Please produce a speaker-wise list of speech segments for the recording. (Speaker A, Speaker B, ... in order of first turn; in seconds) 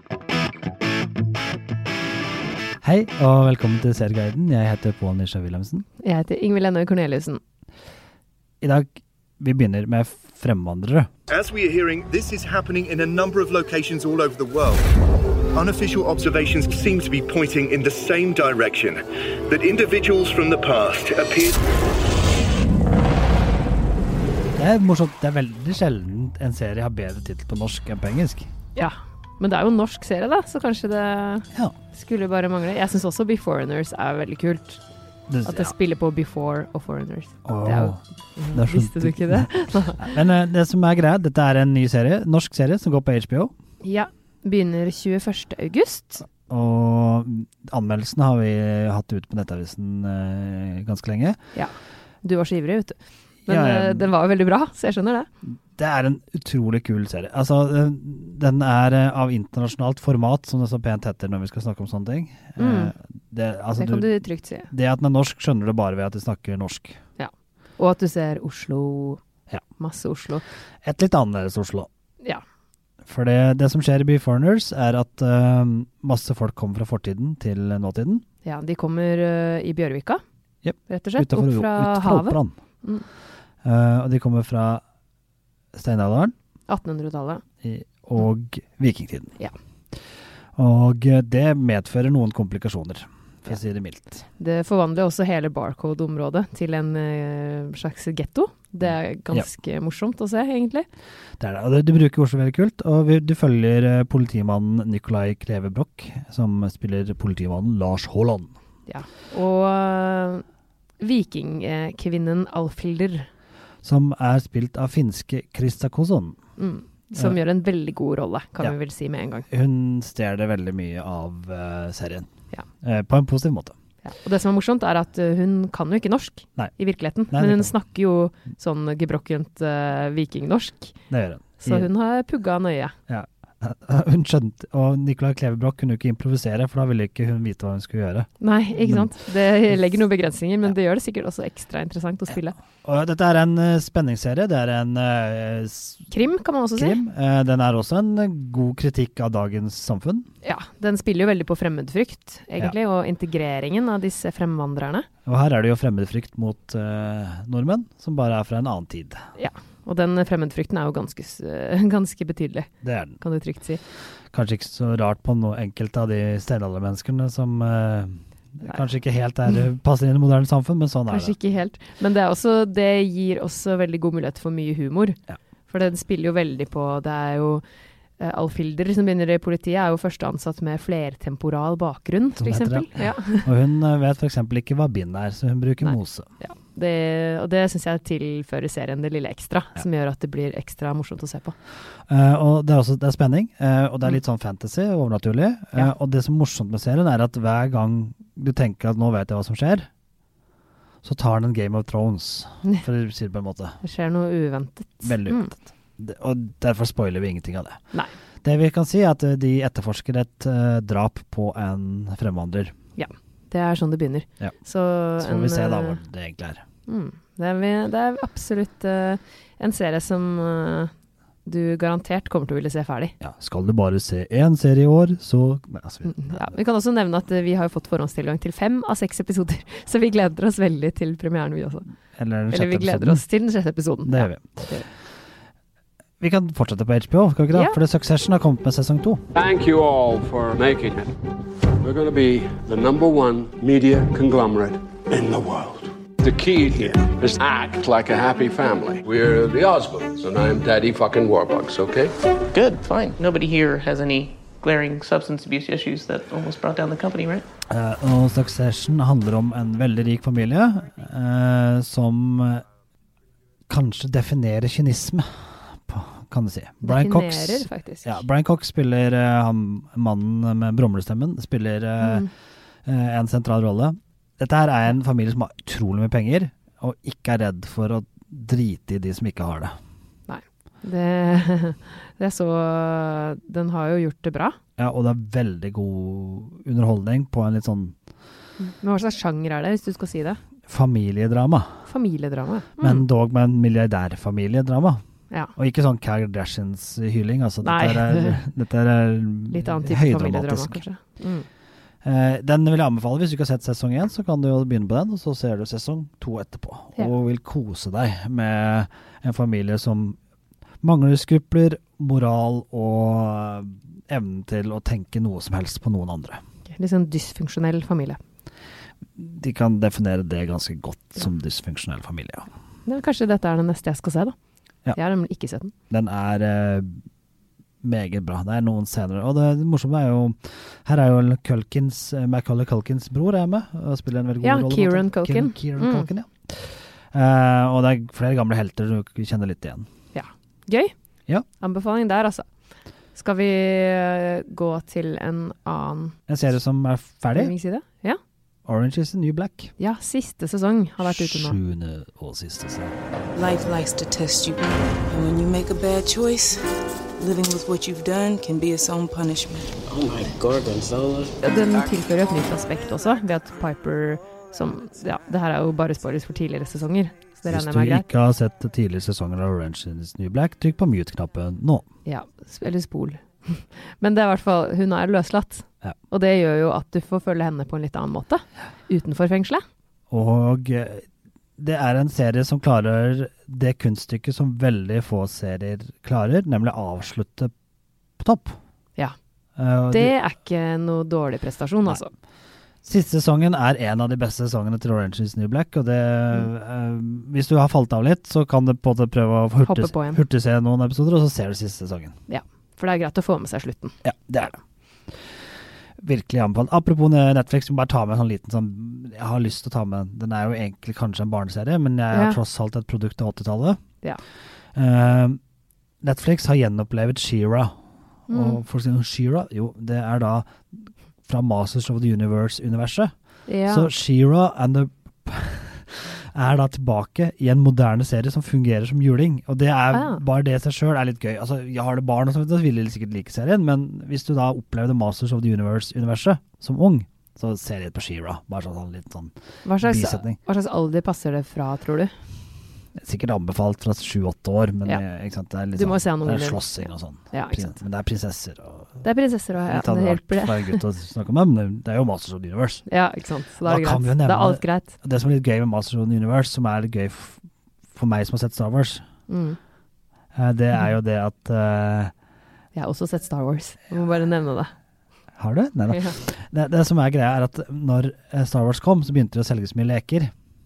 Speaker A: 2.8-5.9, 8.6-11.1, 24.6-28.5, 35.3-35.7, 37.5-38.0, 38.5-43.5, 46.3-51.4, 53.5-54.1, 55.5-64.1, 64.7-67.0, 70.8-71.9, 73.1-78.2, 80.6-82.6, 83.6-84.8, 85.7-86.3, 87.6-89.4, 90.6-94.2, 101.4-108.5, 113.8-116.4, 119.5-122.3, 122.8-123.8, 127.3-127.7, 131.1-131.9, 133.1-139.1, 142.8-146.1, 146.8-150.3, 155.2-159.2, 162.8-163.2, 164.3-171.3, 182.3-186.3, 192.1-199.9, 201.0-203.8, 205.0-207.8, 208.4-212.8, 215.2-216.6, 223.2-226.6, 232.2-233.2, 234.0-234.8, 236.2-239.2, 257.7-262.6, 263.7-272.3, 272.9-279.8, 284.8-287.9, 290.7-291.9, 292.8-295.0, 295.6-300.8, 302.0-310.2, 310.8-316.4, 319.1-322.5, 325.9-327.0, 327.8-339.9, 346.3-347.5, 348.6-349.7, 351.0-352.9, 367.5-371.8, 380.1-381.1, 381.6-387.5, 388.2-388.6, 389.6-390.2, 392.8-402.1, 404.0-404.6, 406.0-413.8, 414.8-415.4, 416.0-417.8, 418.3-420.6, 421.2-423.1, 423.6-440.4, 443.0-449.0, 449.6-452.8, 453.6-457.4, 457.9-459.1, 460.3-462.1, 465.4-470.3
Speaker B: 6.0-7.4, 28.8-34.8, 35.5-40.2, 43.8-46.2, 51.5-55.3, 62.6-62.9, 63.8-64.7, 67.2-69.2, 69.8-70.4, 78.4-80.2, 80.9-83.0, 86.7-87.4, 94.4-100.8, 108.9-110.4, 111.0-113.3, 116.6-119.5, 124.0-130.9, 131.6-132.9, 138.4-142.6, 146.1-147.0, 150.4-155.1, 159.3-162.7, 163.2-163.8, 171.1-175.2, 175.7-177.6, 178.2-183.5, 185.8-191.5, 203.8-205.5, 212.9-216.0, 216.9-220.9, 221.4-223.1, 226.1-231.9, 232.5-234.8, 266.8-268.2, 280.3-284.6, 288.6-290.4, 291.9-293.1, 297.6-298.4, 299.5-301.4, 316.7-318.2, 322.9-324.3, 324.9-325.7, 334.4-336.1, 340.1-340.9, 341.6-342.4, 343.1-346.1, 347.4-348.2, 349.8-351.6, 361.4-368.1, 372.1-379.6, 389.9-392.1, 399.6-400.2, 402.3-403.9, 412.1-412.4, 418.3-418.6, 423.5-423.9, 429.9-430.2, 439.6-442.1, 445.8-447.8, 449.0-450.8, 452.9-454.9, 459.3-459.6, 462.8-464.7, 465.9-466.2
Speaker C: 11.3-14.9, 15.5-21.7
Speaker D: 239.3-241.1, 241.8-252.1
Speaker E: 252.5-257.4
Speaker F: 353.3-356.6, 357.2-361.4